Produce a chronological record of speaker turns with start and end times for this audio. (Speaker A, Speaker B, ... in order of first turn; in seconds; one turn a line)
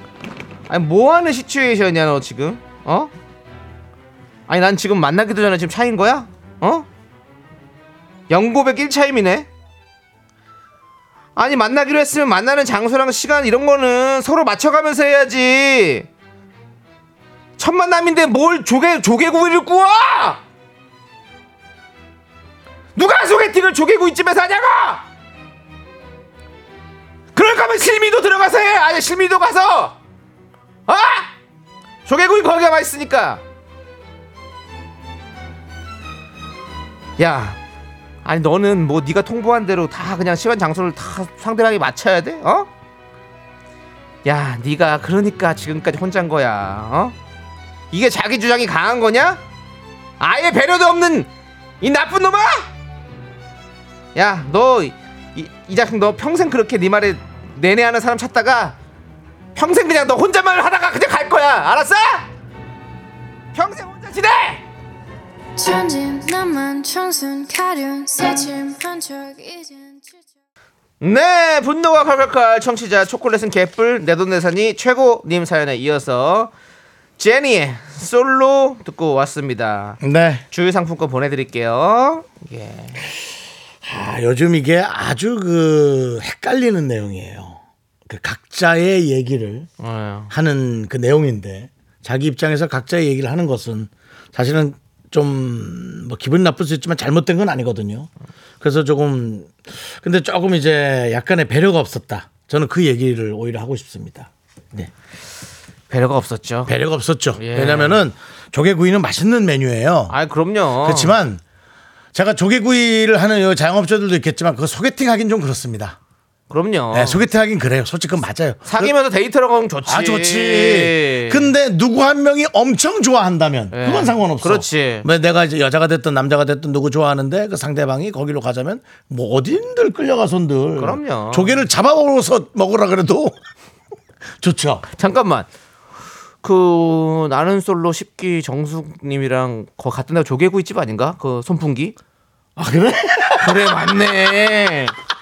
Speaker A: 0.7-3.1
Speaker A: 4.5-6.9
Speaker A: 8.3-9.5
Speaker A: 11.3-16.1
Speaker A: 17.6-20.4
Speaker A: 22.9-25.0
Speaker A: 27.3-29.9
Speaker A: 30.9-31.3
Speaker A: 32.0-33.4
Speaker A: 37.2-37.6
Speaker A: 38.2-42.7
Speaker A: 44.2-47.1
Speaker A: 47.9-49.4
Speaker A: 50.2-51.3
Speaker A: 51.8-52.7
Speaker A: 54.1-58.8
Speaker A: 59.5-62.3
Speaker A: 63.5-64.6
Speaker B: 65.6-70.2
Speaker A: 71.0-76.5
Speaker A: 77.2-80.0
Speaker C: 80.0-80.4
Speaker A: 80.5-83.0
Speaker C: 83.8-89.7
Speaker A: 89.8-90.3
Speaker C: 90.3-98.1
Speaker C: 98.6-104.9
Speaker A: 105.9-106.7
Speaker C: 106.7-110.2
Speaker A: 107.3-108.0
Speaker A: 110.1-111.2
Speaker C: 110.8-111.4
Speaker C: 112.1-116.0
Speaker A: 116.5-117.2
Speaker C: 116.9-118.9
Speaker A: 118.7-121.5
Speaker C: 119.8-133.4
Speaker A: 123.7-125.1
Speaker A: 130.8-131.6
Speaker C: 134.4-134.8
Speaker A: 135.0-135.5
Speaker A: 136.4-141.9
Speaker C: 142.6-144.5
Speaker A: 143.4-144.9